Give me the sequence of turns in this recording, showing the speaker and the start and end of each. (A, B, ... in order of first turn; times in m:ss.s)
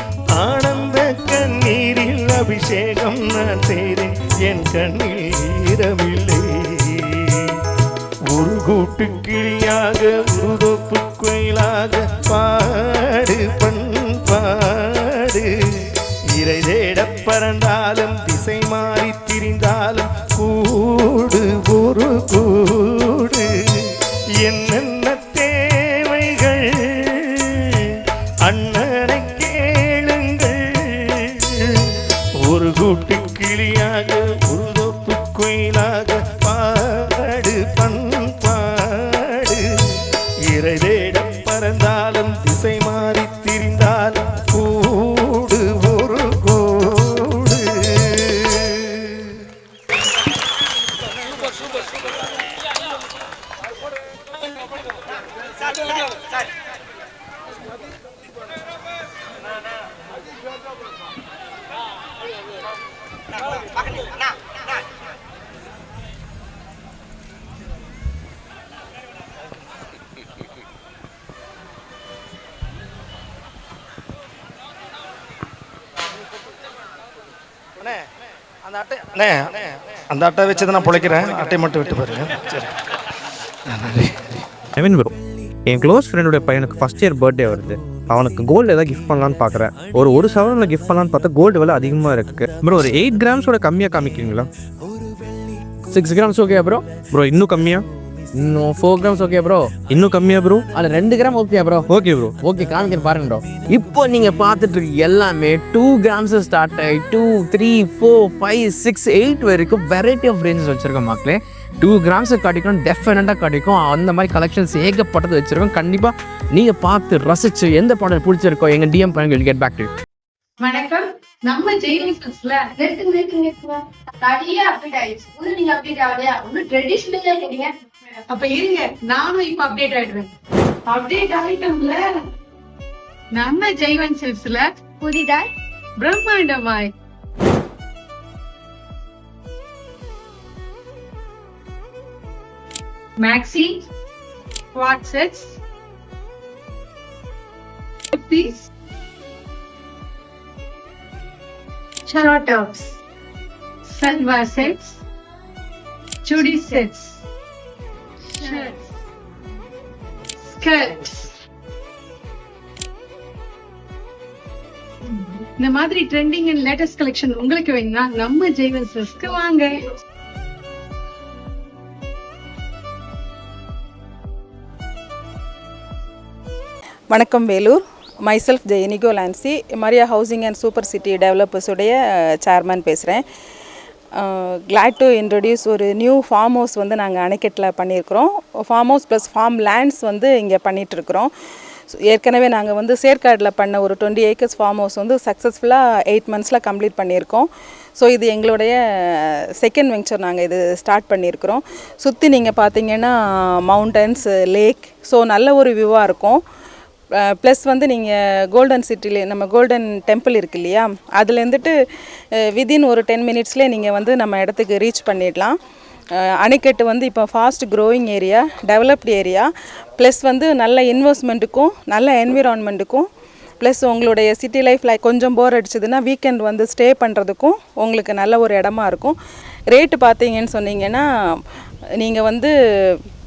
0:00.4-0:07.6 A
0:08.3-0:49.5 A
1:18.7-1:19.5 B
1:20.1-1:22.7 B
1:23.7-1:24.4 B
1:24.8-1:25.1 C
1:25.7-1:34.5 C
1:35.9-1:36.8 D
1:37.1-1:37.8 C
1:38.3-1:39.7 D
1:39.9-1:40.7 C
1:40.7-1:41.9 D
1:41.9-1:42.4 C
1:42.4-1:59.9 D
2:00.6-2:02.8 E
2:02.8-2:07.7 F
2:08.2-2:10.3 E
2:10.8-2:12.2 E
2:13.3-2:14.8 E
2:15.0-2:15.5 F
2:16.0-2:16.9 E
2:23.2-2:23.8 E
2:24.7-2:25.5 E
2:28.1-2:28.6 E
2:32.1-2:33.0 E
2:33.9-2:35.0 E
2:36.2-2:37.2 E
2:38.4-2:38.8 E
2:40.5-2:41.3 E
2:45.1-2:49.9 E
2:57.1-3:03.2 G
3:04.2-3:11.3 G
3:12.1-3:26.4 G
3:27.2-3:31.7 G
3:32.5-3:35.5 G
3:36.3-3:43.0 G
3:43.6-3:49.2 G
3:49.7-3:51.4 G
3:52.0-3:53.0 G